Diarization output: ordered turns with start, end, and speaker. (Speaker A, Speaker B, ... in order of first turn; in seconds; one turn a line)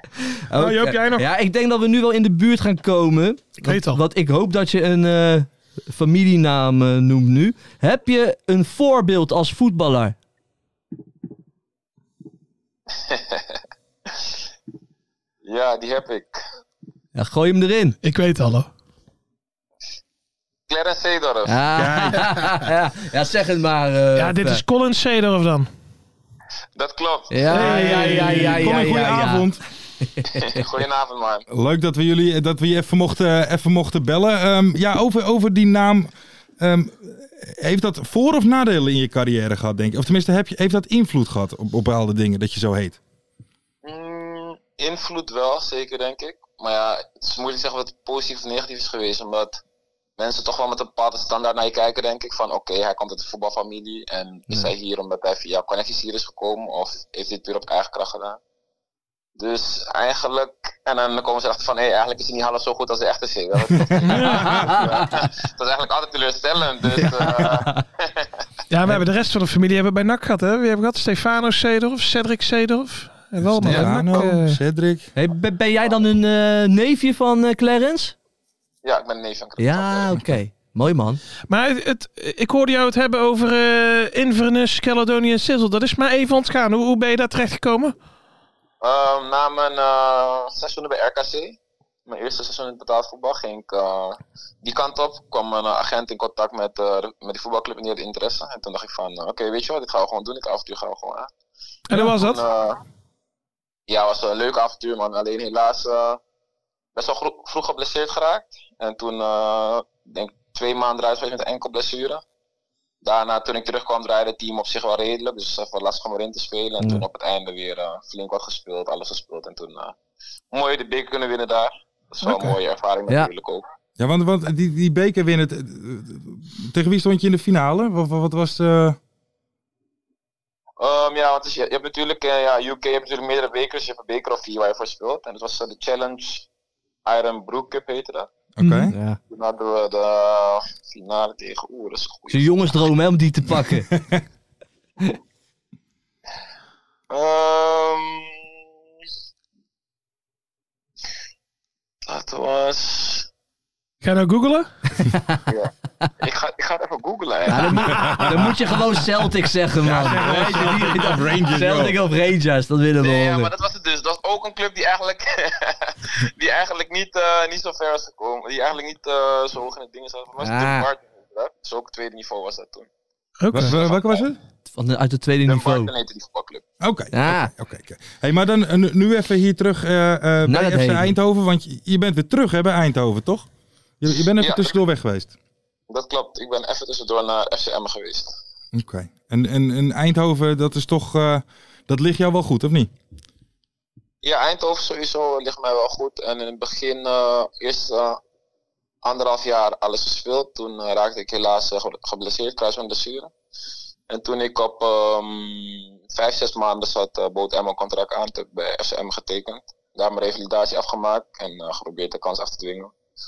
Speaker A: 0.2-10.2
Speaker B: 0.6-1.2
Speaker B: 3.6-4.0
Speaker C: 13.0-13.5
Speaker C: 15.4-16.4
Speaker A: 17.1-18.0
Speaker B: 18.0-18.7
Speaker C: 20.7-21.6
Speaker A: 21.4-24.6
Speaker D: 21.8-22.6
Speaker B: 24.1-25.7
Speaker C: 26.8-28.1
Speaker A: 27.3-29.5
Speaker B: 27.5-28.8
Speaker D: 28.2-29.6
Speaker A: 30.0-30.6
Speaker C: 30.3-31.4
Speaker D: 31.5-43.0
Speaker C: 43.8-49.6
Speaker C: 50.2-58.4
Speaker C: 59.4-68.3
Speaker B: 64.0-64.6
Speaker A: 64.2-65.2
Speaker A: 67.0-67.8
Speaker B: 68.7-74.6
Speaker D: 73.4-75.1
Speaker A: 73.6-73.9
Speaker A: 75.2-78.1
Speaker C: 78.8-80.2
Speaker A: 79.6-81.2
Speaker B: 81.5-87.9
Speaker C: 88.8-101.3
Speaker B: 101.9-102.4
Speaker C: 101.9-102.8
Speaker C: 103.9-106.2
Speaker C: 106.9-112.2
Speaker C: 113.0-119.9
Speaker A: 116.8-117.0
Speaker C: 120.5-123.6
Speaker D: 124.0-129.0
Speaker C: 130.8-136.5
Speaker C: 137.0-138.3
Speaker D: 138.6-138.9
Speaker B: 138.6-138.9
Speaker A: 138.9-139.2
Speaker C: 139.3-142.8
Speaker A: 142.3-143.9
Speaker C: 147.1-148.4
Speaker C: 152.1-153.3
Speaker B: 154.0-154.7
Speaker A: 155.0-155.4
Speaker C: 155.5-158.2
Speaker A: 157.5-163.5
Speaker D: 159.8-162.0
Speaker B: 160.2-161.0
Speaker C: 163.0-172.9
Speaker A: 170.4-170.9
Speaker B: 173.4-173.7
Speaker D: 173.5-174.4
Speaker C: 173.6-174.2
Speaker A: 174.7-175.9
Speaker C: 175.4-176.6
Speaker D: 176.8-183.5
Speaker A: 177.1-177.5
Speaker A: 180.4-181.1
Speaker D: 184.0-185.3
Speaker C: 184.4-184.7
Speaker C: 185.9-188.3
Speaker D: 188.7-192.9
Speaker C: 194.2-198.2
Speaker C: 199.0-203.3
Speaker C: 204.1-212.9